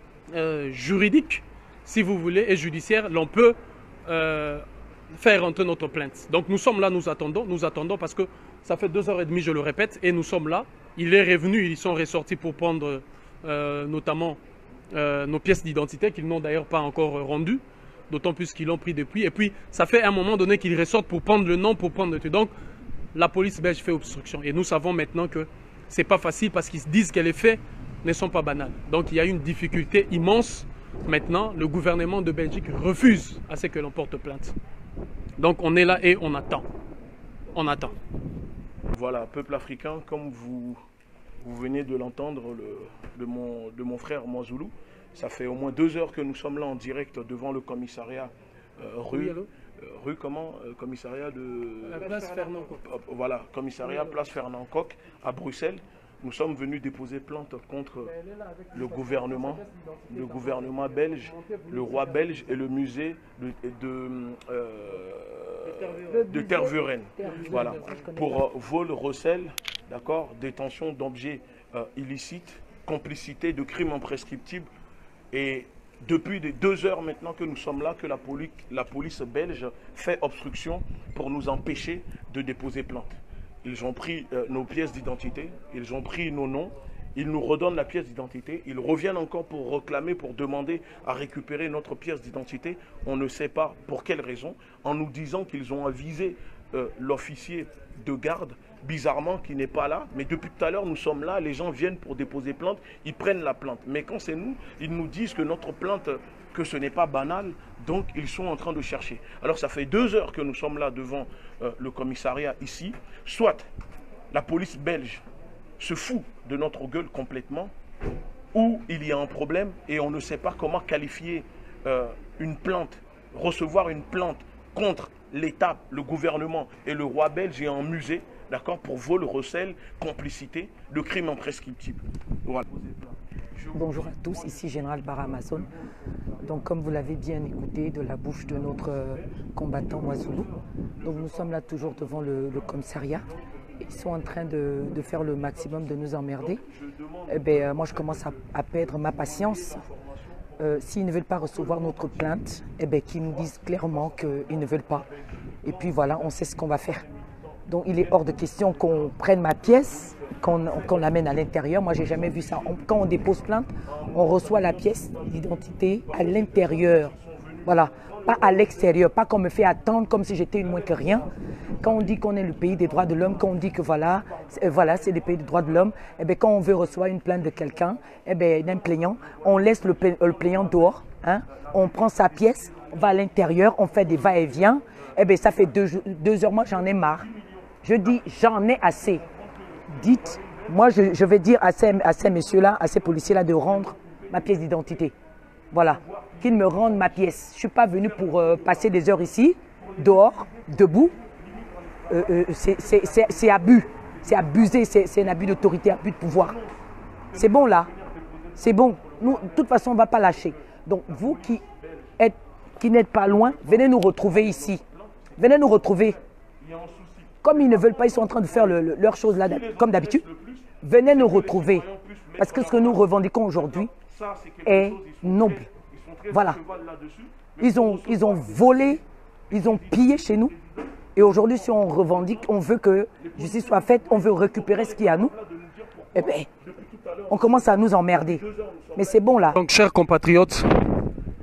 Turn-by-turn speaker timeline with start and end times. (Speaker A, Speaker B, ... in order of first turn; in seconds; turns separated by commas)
Speaker A: 0.3-14.4, Speaker A: 14.9-22.5, Speaker A: 23.1-34.5, Speaker A: 35.4-36.7, Speaker A: 37.5-38.0, Speaker B: 38.9-40.8, Speaker B: 41.4-52.2, Speaker A: 49.1-49.5, Speaker A: 51.9-52.8, Speaker B: 52.8-58.1, Speaker B: 58.7-74.7, Speaker C: 66.0-68.4, Speaker B: 75.3-113.7, Speaker B: 114.3-115.2, Speaker B: 115.8-117.7, Speaker B: 118.5-135.8, Speaker C: 133.7-135.7, Speaker C: 136.4-140.5, Speaker B: 138.6-139.3, Speaker B: 139.9-143.3, Speaker C: 141.0-143.3, Speaker C: 143.8-146.6, Speaker B: 145.1-150.1, Speaker C: 147.3-149.8, Speaker C: 150.6-155.1, Speaker B: 151.4-152.4, Speaker B: 153.1-161.4, Speaker C: 155.6-157.0, Speaker C: 157.7-167.1, Speaker B: 161.9-168.9, Speaker C: 167.7-171.3, Speaker B: 170.6-171.3, Speaker B: 171.8-175.9, Speaker C: 171.8-187.3, Speaker B: 179.0-183.3, Speaker B: 183.9-184.7, Speaker B: 186.8-188.3, Speaker C: 187.8-189.2, Speaker B: 189.0-191.1, Speaker C: 189.9-195.2, Speaker B: 193.2-195.1, Speaker C: 195.7-201.1, Speaker B: 195.8-197.3, Speaker B: 197.9-199.1, Speaker B: 199.8-205.7, Speaker C: 202.1-206.6, Speaker B: 206.3-206.8, Speaker B: 207.3-212.2, Speaker C: 207.3-207.9, Speaker C: 208.6-211.6, Speaker C: 212.2-214.8, Speaker B: 213.3-215.4, Speaker C: 215.4-216.2, Speaker B: 216.0-232.5, Speaker C: 217.4-220.2, Speaker C: 220.8-221.9, Speaker C: 222.4-223.9, Speaker C: 224.7-225.7, Speaker C: 226.3-226.6, Speaker C: 227.6-230.5, Speaker C: 231.2-235.3, Speaker B: 233.2-239.5, Speaker C: 236.2-236.5, Speaker C: 237.3-238.4, Speaker C: 239.0-239.6, Speaker A: 239.6-240.8